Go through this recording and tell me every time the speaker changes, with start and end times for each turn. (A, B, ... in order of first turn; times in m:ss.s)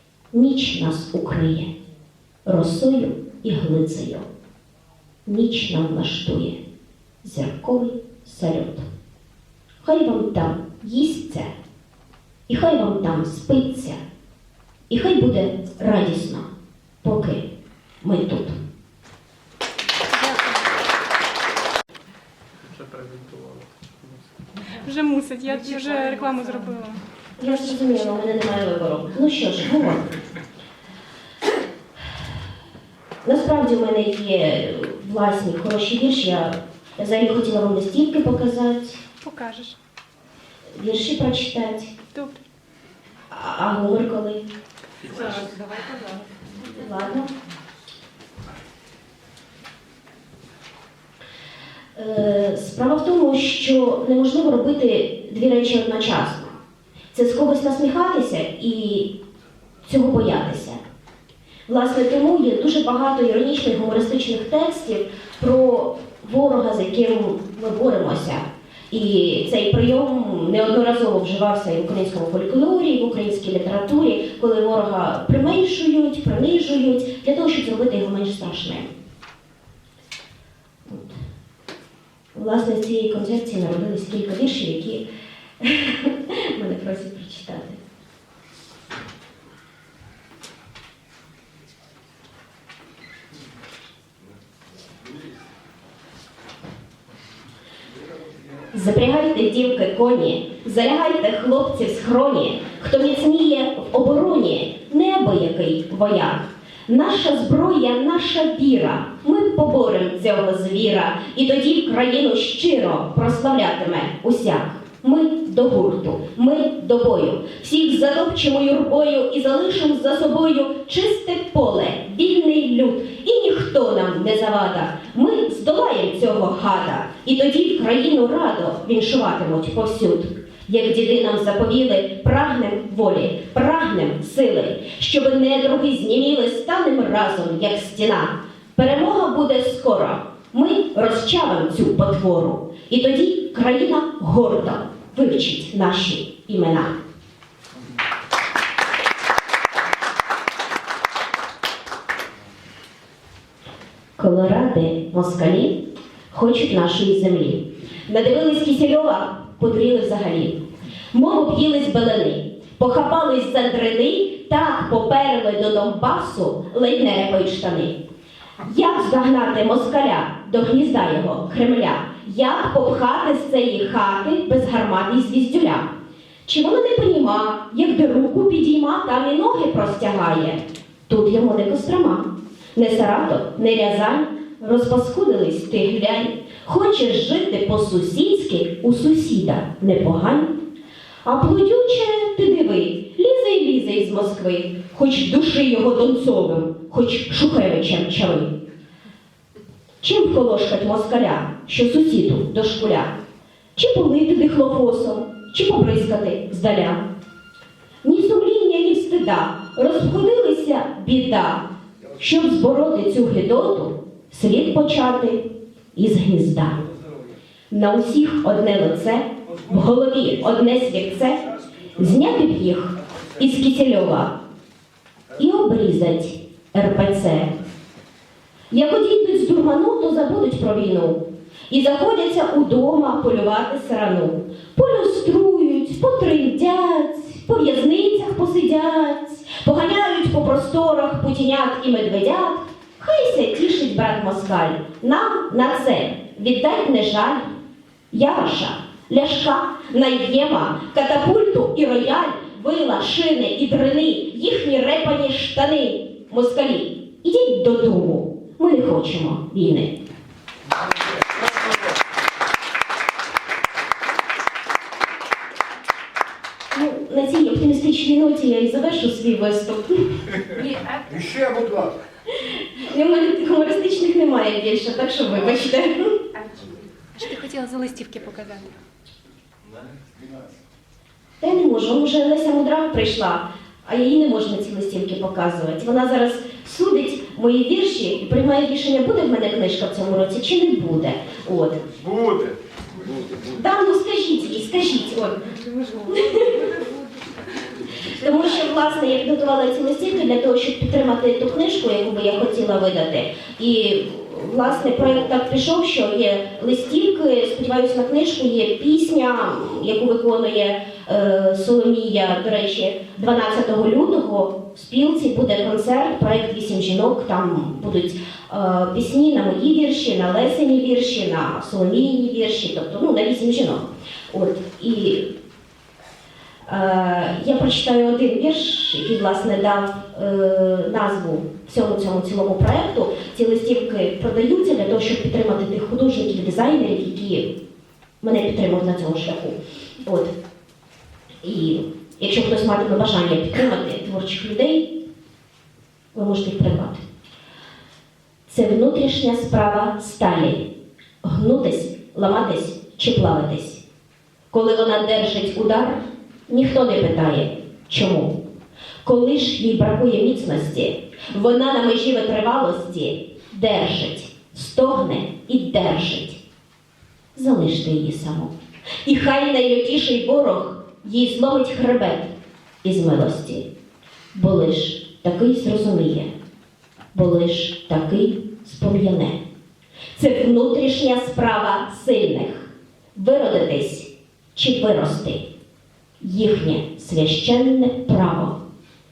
0:00.3-0:01.7 A
0:02.4-0:04.3 A
0:05.2-0:06.6 A
0:07.2-0:08.8 A
0:09.8-0:11.5 A
0:12.5-0:14.0 A
0:14.9-0:16.5 A
0:17.0-0:17.5 A
0:18.0-0:18.6 A
0:22.7-0:24.3 B
0:24.8-0:27.0 C
0:27.4-0:30.1 A
0:33.2-0:39.0 A
0:39.2-0:39.8 C
0:40.7-0:41.9 A
0:43.3-0:44.4 A
0:45.1-0:45.5 C
0:46.6-0:47.3 A
0:52.0-0:56.5 A
0:57.1-0:59.1 A
0:59.8-1:00.8 A
1:01.7-1:18.9 A
1:20.8-1:21.2 A
1:22.3-1:25.0 A
1:25.6-1:27.8 A
1:38.7-2:27.0 A
2:34.2-2:35.8 A
2:36.3-2:40.6 A
2:41.1-2:48.0 A
2:48.6-2:55.9 A
2:56.4-3:10.6 A
3:11.2-3:18.5 A
3:20.0-3:23.1 A
3:23.7-3:27.0 A
3:28.0-3:36.9 A
3:37.7-3:44.4 A
3:45.3-3:47.5 A
3:48.7-4:07.5 A
4:08.1-4:19.9 A
4:26.7-4:30.7 A
4:31.3-4:31.8 B
4:32.3-4:36.2 A
4:37.1-4:38.7 C
4:41.4-4:52.1 A
4:53.4-4:56.8 A
4:55.8-4:56.8 C
4:57.9-5:25.3 A
5:26.6-5:37.5 A
5:38.2-5:40.3 A
5:41.4-5:44.9 A
5:46.1-5:47.0 A
5:48.5-5:50.6 A
5:51.2-5:53.8 A
5:54.5-5:58.4 A
5:59.0-6:06.4 A
6:07.3-6:08.5 A
6:09.0-6:13.6 A
6:14.3-6:16.3 A
6:17.1-6:19.4 A
6:20.1-6:25.4 A
6:26.2-6:28.6 A